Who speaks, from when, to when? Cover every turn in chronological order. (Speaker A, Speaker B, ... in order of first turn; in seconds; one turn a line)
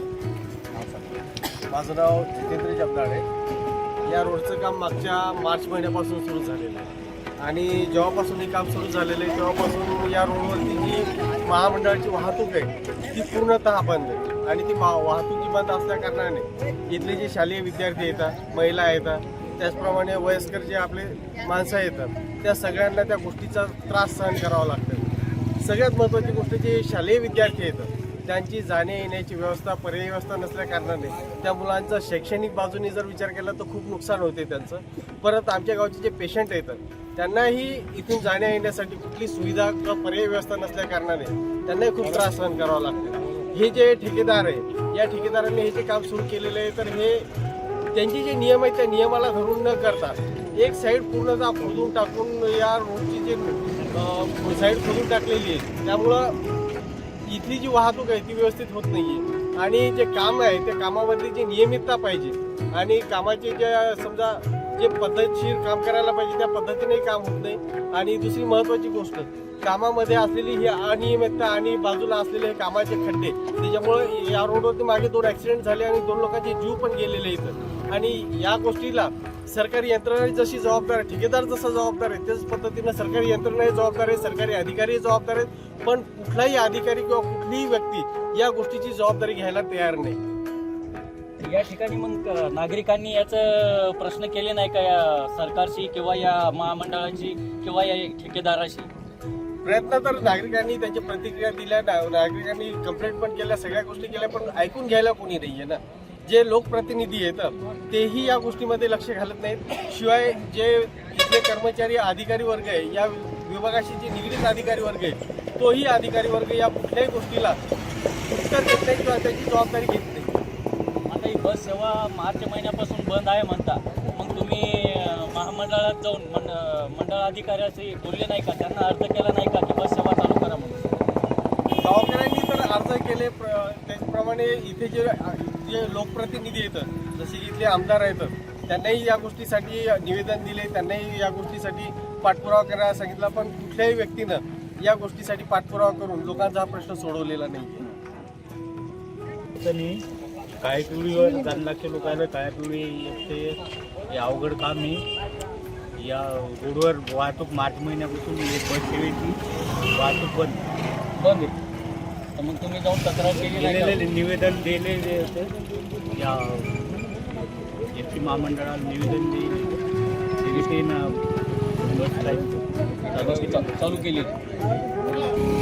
Speaker A: 0.7-1.2
Speaker A: 1.7-3.2
Speaker A: 4.1-6.9
Speaker A: 7.4-47.2
Speaker A: 47.9-56.4
Speaker A: 57.3-90.2
Speaker B: 91.4-98.9
Speaker A: 99.6-117.6
Speaker A: 118.3-120.4
Speaker B: 121.1-130.9
Speaker A: 131.8-147.9
Speaker C: 149.5-150.0
Speaker C: 150.6-153.6
Speaker C: 154.1-155.0
Speaker C: 155.9-160.6
Speaker B: 161.2-161.6
Speaker B: 162.4-164.0
Speaker C: 163.6-165.5
Speaker C: 166.1-166.9
Speaker C: 167.9-169.7
Speaker C: 170.4-171.2
Speaker C: 171.8-172.5
Speaker B: 173.0-174.4
Speaker C: 173.2-173.6